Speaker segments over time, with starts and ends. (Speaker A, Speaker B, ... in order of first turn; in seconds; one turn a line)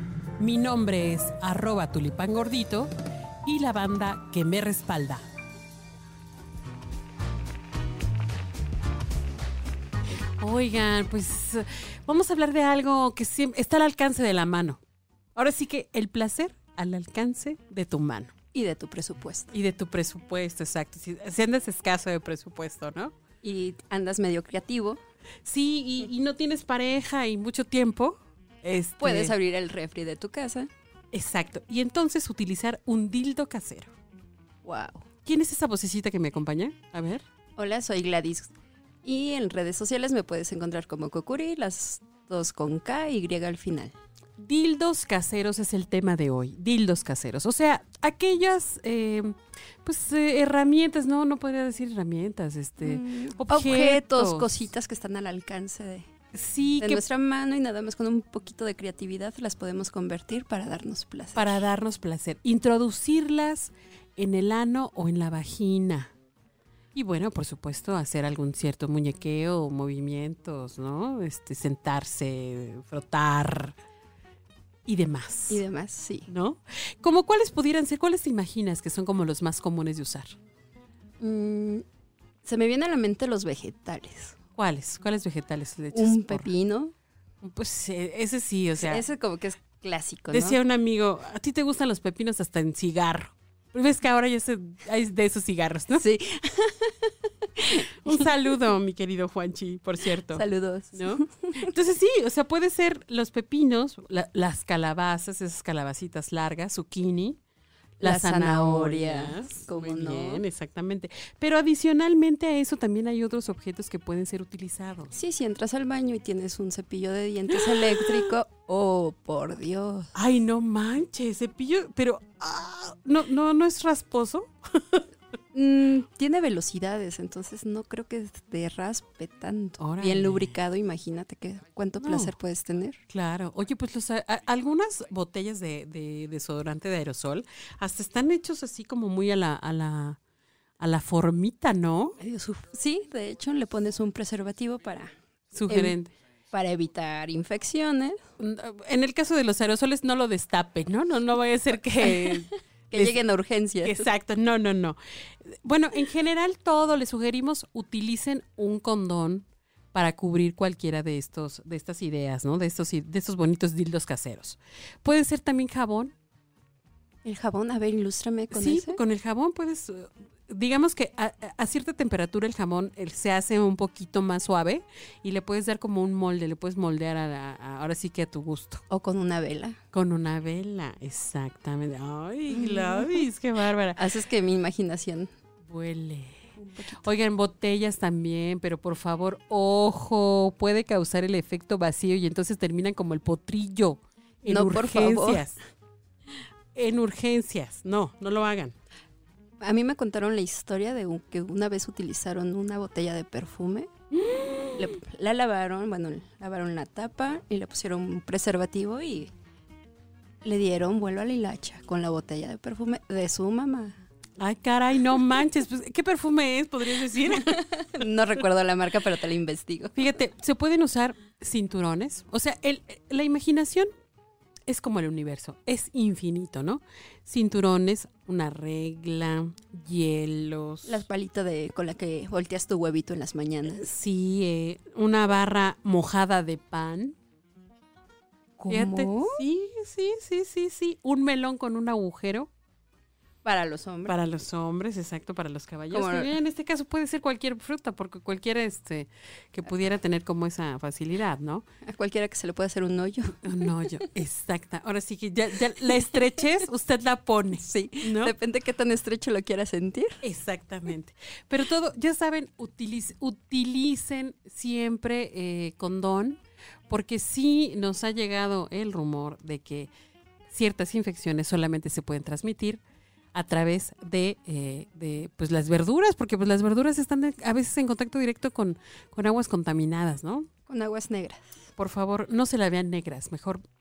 Speaker A: 0.4-2.9
Speaker A: 3.4-5.2
Speaker A: 10.4-14.8
Speaker A: 15.4-18.3
Speaker B: 18.5-19.5
Speaker A: 19.5-23.1
Speaker B: 23.4-25.0
Speaker A: 25.4-29.3
Speaker B: 29.0-30.7
Speaker A: 31.1-33.9
Speaker B: 34.6-35.1
Speaker A: 35.2-37.2
Speaker B: 37.6-38.5
Speaker B: 39.0-43.9
Speaker A: 44.4-54.7
Speaker B: 52.8-56.1
Speaker A: 56.3-57.0
Speaker B: 56.8-61.6
Speaker A: 61.4-66.1
Speaker A: 67.0-73.8
Speaker A: 74.9-75.6
Speaker B: 75.5-76.3
Speaker A: 76.3-80.4
Speaker B: 81.2-81.8
Speaker B: 82.5-84.4
Speaker A: 84.6-86.5
Speaker B: 85.9-86.9
Speaker A: 87.4-89.0
Speaker B: 88.8-90.6
Speaker A: 90.3-96.1
Speaker B: 96.0-98.4
Speaker A: 97.8-107.4
Speaker B: 100.3-101.7
Speaker B: 108.0-110.4
Speaker A: 108.0-115.1
Speaker B: 115.1-120.1
Speaker A: 117.7-118.2
Speaker A: 120.1-125.0
Speaker B: 125.5-133.0
Speaker A: 129.8-130.6
Speaker A: 132.0-132.3
Speaker A: 133.1-140.2
Speaker A: 140.8-142.2
Speaker B: 142.2-145.1
Speaker A: 145.5-146.1
Speaker B: 145.7-146.0
Speaker B: 146.5-148.2
Speaker A: 148.4-153.2
Speaker B: 152.0-154.1
Speaker A: 153.8-155.0
Speaker A: 155.6-166.1
Speaker B: 167.2-169.0
Speaker A: 168.5-178.8
Speaker B: 178.9-179.8
Speaker A: 179.9-184.0
Speaker B: 182.5-183.2
Speaker B: 184.0-185.3
Speaker A: 185.7-195.6
Speaker B: 186.6-187.0
Speaker B: 194.5-195.4
Speaker A: 196.8-198.8
Speaker B: 199.6-203.9
Speaker A: 204.2-204.8
Speaker B: 204.7-209.3
Speaker B: 210.4-214.0
Speaker A: 214.4-217.7
Speaker B: 217.2-220.1
Speaker A: 219.9-223.9
Speaker A: 224.7-231.1
Speaker B: 230.8-233.9
Speaker A: 233.7-237.2
Speaker B: 238.6-239.4
Speaker A: 238.7-242.5
Speaker B: 243.4-244.1
Speaker A: 244.1-251.7
Speaker B: 245.9-246.3
Speaker B: 251.8-253.7
Speaker A: 253.4-258.4
Speaker B: 257.5-260.2
Speaker A: 260.2-269.9
Speaker A: 270.5-272.8
Speaker A: 273.3-280.5
Speaker B: 280.7-281.7
Speaker A: 281.8-283.6